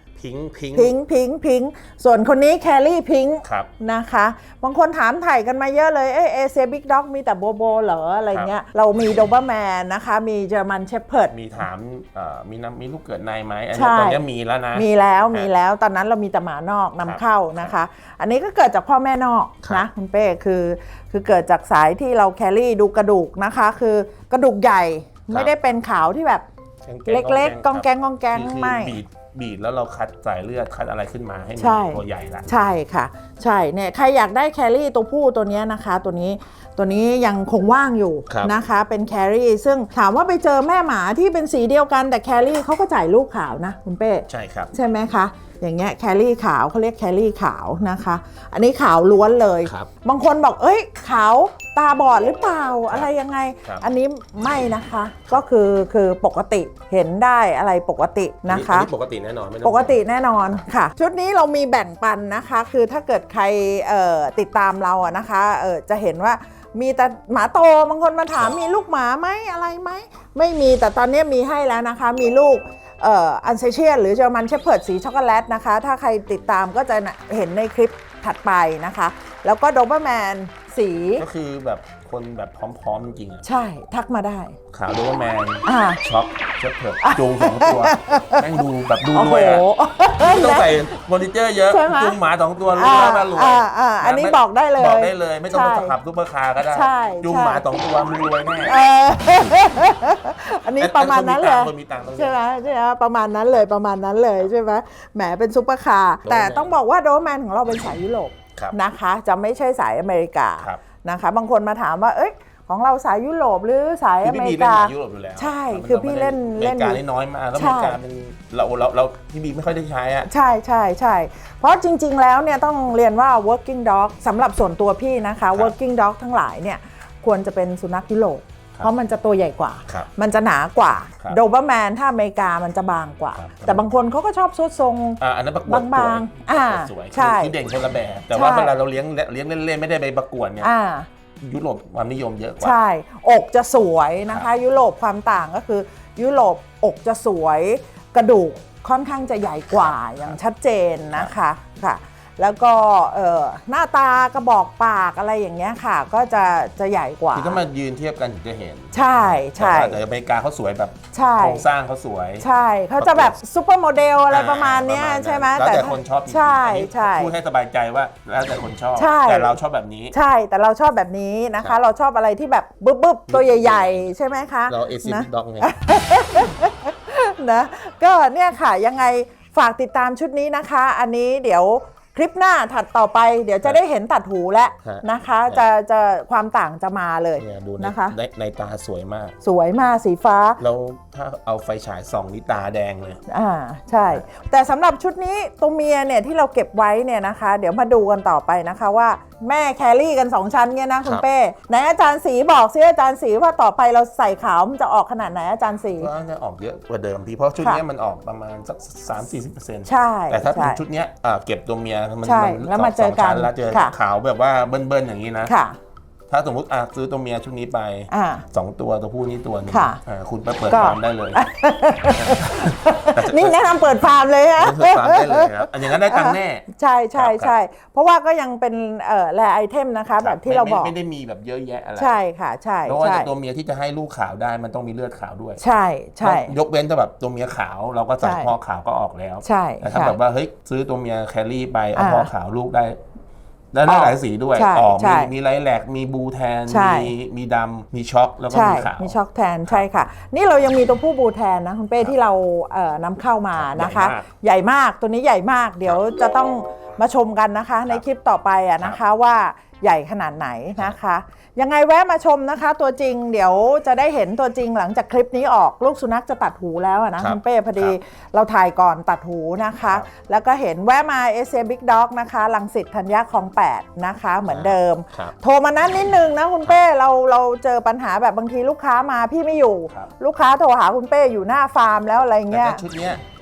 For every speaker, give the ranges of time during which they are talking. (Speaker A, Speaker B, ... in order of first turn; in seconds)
Speaker A: 0.1-0.9, 3.4-3.7, 11.3-15.5, 17.0-17.7, 26.8-32.5, 38.3-38.5, 44.3-44.7, 58.5-60.0, 81.2-83.4, 84.7-89.7, 90.2-98.8, 100.8-102.5, 106.2-106.7, 114.2-120.3, 133.3-133.9, 135.2-140.7, 141.4-142.8, 149.7-150.4, 157.3-162.4, 163.0-163.3, 164.3-170.1, 173.3-174.1, 174.7-175.7, 184.8-185.7, 187.4-189.3, 190.6-193.2, 206.0-215.5, 216.3-221.4, 222.1-223.6, 224.6-227.5, 230.2-232.2, 232.8-235.6, 236.2-243.0, 243.7-249.8, 253.5-254.3, 267.2-267.9, 274.5-275.3, 282.5-283.2
Speaker B: 0.7-11.3, 13.7-14.2, 14.7-26.4, 27.1-29.0, 31.6-58.9, 59.6-81.2, 83.4-84.5, 85.6-86.0, 87.0-90.8, 91.7-92.2, 92.7-95.9, 96.6-97.6, 98.6-117.0, 117.5-118.0, 120.3-137.5, 138.3-138.7, 140.6-141.1, 142.6-157.6, 158.9-160.0, 161.1-161.7, 162.4-167.3, 168.9-169.5, 170.1-188.1, 189.4-190.6, 193.3-206.1, 209.8-210.8, 212.2-213.9, 215.4-215.8, 218.1-218.4, 219.7-220.0, 220.7-230.9, 231.9-233.3, 235.6-236.5, 238.2-238.5, 239.4-240.2, 241.9-242.3, 243.9-245.3, 246.7-247.1, 248.5-282.8